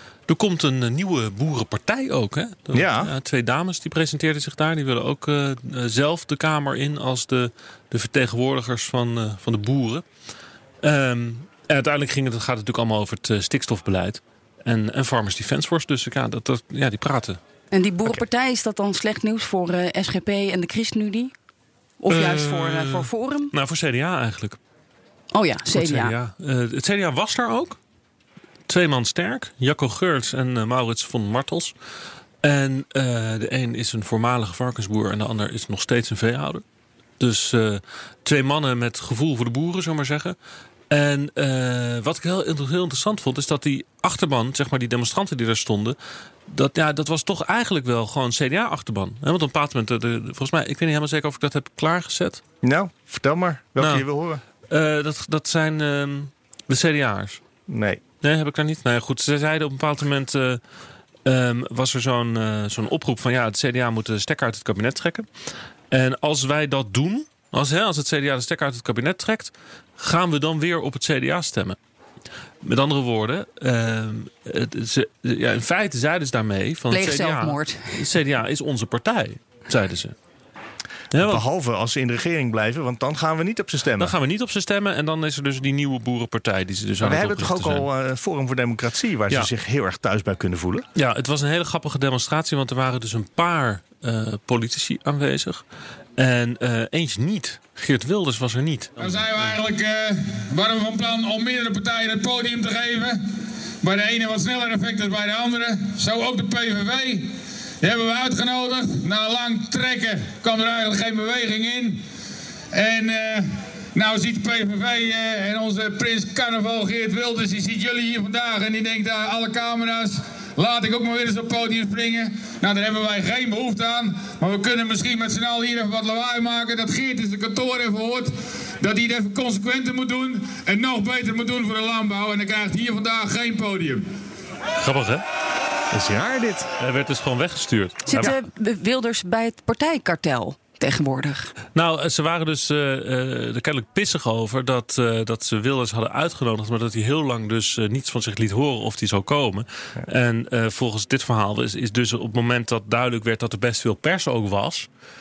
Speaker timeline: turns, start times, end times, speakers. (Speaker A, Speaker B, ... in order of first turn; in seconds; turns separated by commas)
Speaker A: 0.3-10.1, Speaker B: 2.7-3.1, Speaker A: 10.8-17.4, Speaker C: 17.7-21.3, Speaker C: 22.0-23.5, Speaker A: 22.1-24.6, Speaker C: 25.3-26.1, Speaker A: 25.7-27.8, Speaker A: 28.7-31.7, Speaker A: 32.4-36.6, Speaker A: 37.2-40.4, Speaker A: 40.9-46.0, Speaker A: 46.5-52.4, Speaker B: 52.6-54.4, Speaker A: 53.8-54.1, Speaker A: 54.7-57.4, Speaker B: 57.7-58.0, Speaker A: 58.2-60.6, Speaker A: 61.2-65.3, Speaker A: 65.9-71.8, Speaker A: 72.6-80.2, Speaker C: 76.9-78.0, Speaker A: 81.1-81.4, Speaker B: 81.1-84.2, Speaker A: 84.0-87.9, Speaker B: 87.0-90.8, Speaker A: 91.0-95.6, Speaker A: 96.2-99.0, Speaker D: 99.0-103.2, Speaker D: 103.8-112.0, Speaker D: 112.7-134.1, Speaker A: 134.8-135.2, Speaker B: 135.9-136.7, Speaker A: 136.8-138.3, Speaker C: 138.1-141.5, Speaker A: 141.8-154.9